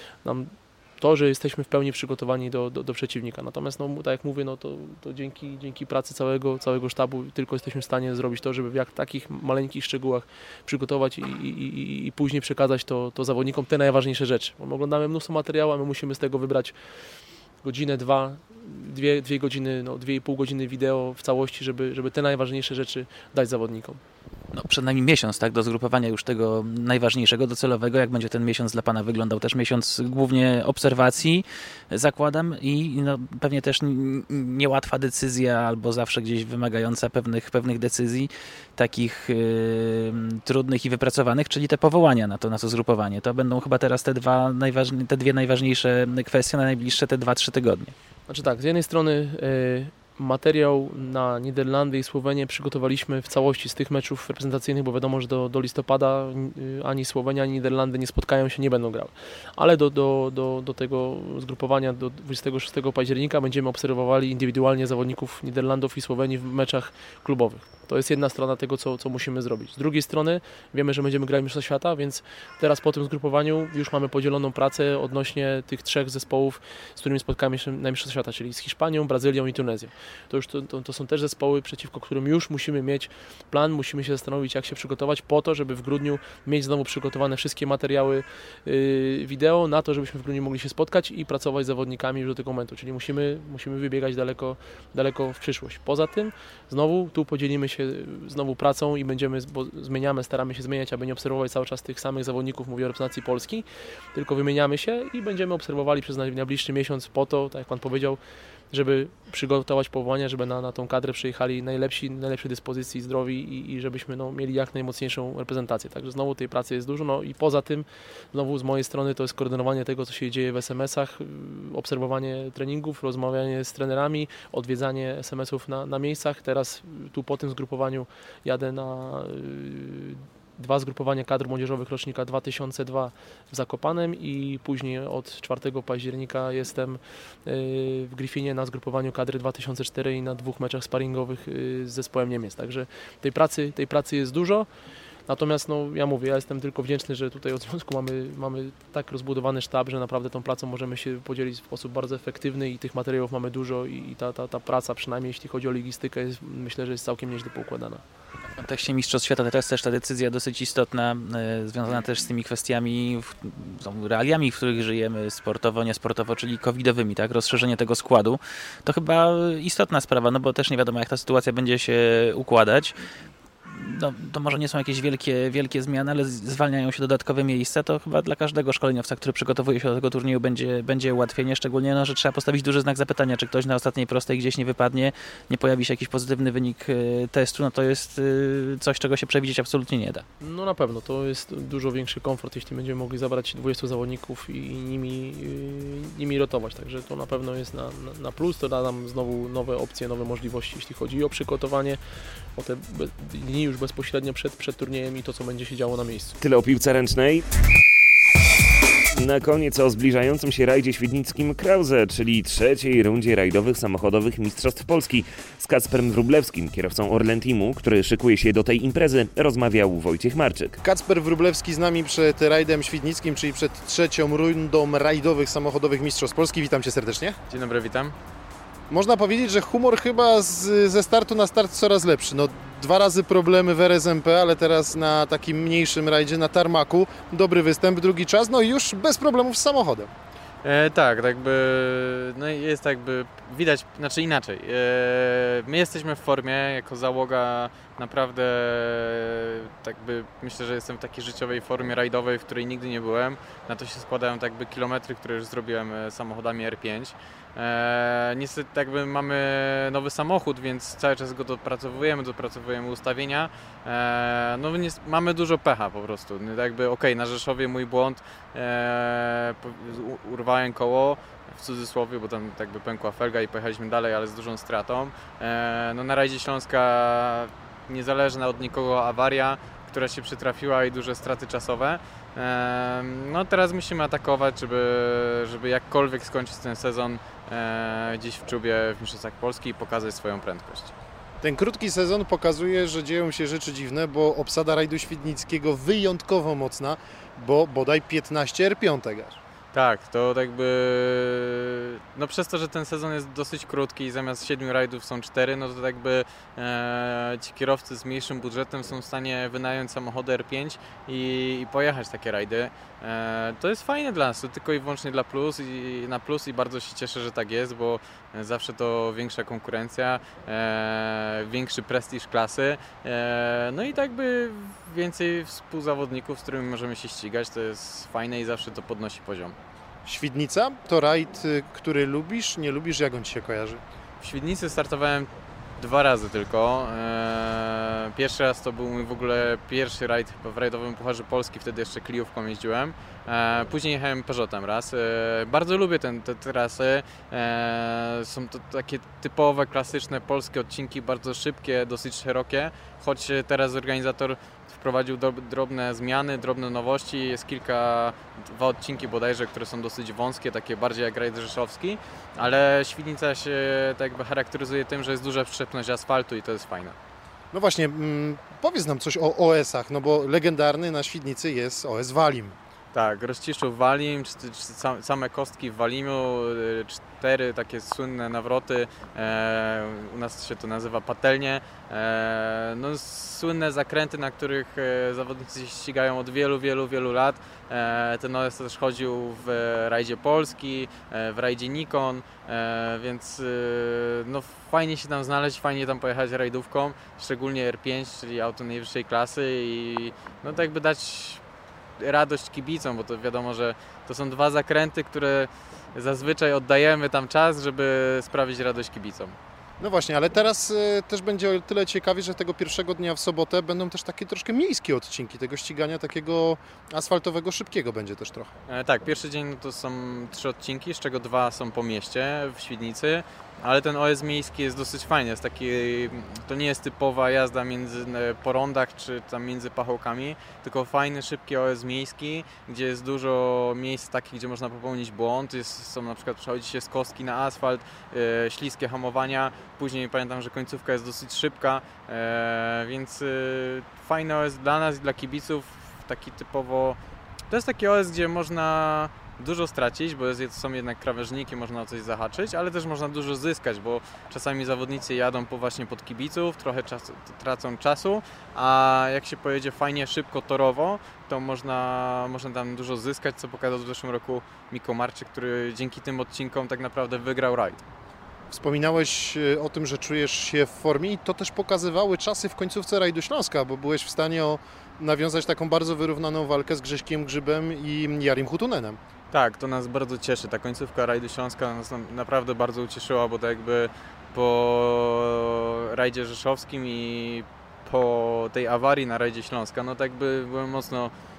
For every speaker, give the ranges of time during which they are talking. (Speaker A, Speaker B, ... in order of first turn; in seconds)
Speaker A: 0.2-16.7, 17.6-24.0, 48.3-108.2, 108.7-144.7, 145.3-158.0, 190.4-202.0, 202.6-206.4
Speaker B: 24.5-47.9, 158.5-172.9, 173.7-190.2
Speaker C: 206.4-207.5, 209.1-220.8
Speaker D: 220.8-227.4, 228.9-240.1, 291.4-299.4, 330.1-333.8, 367.5-372.6, 409.8-418.5, 468.5-479.0
Speaker E: 227.5-228.2, 240.6-290.9, 299.7-329.6, 334.2-367.0, 372.9-401.4, 402.0-409.4, 418.7-447.0, 447.5-467.8, 479.3-491.1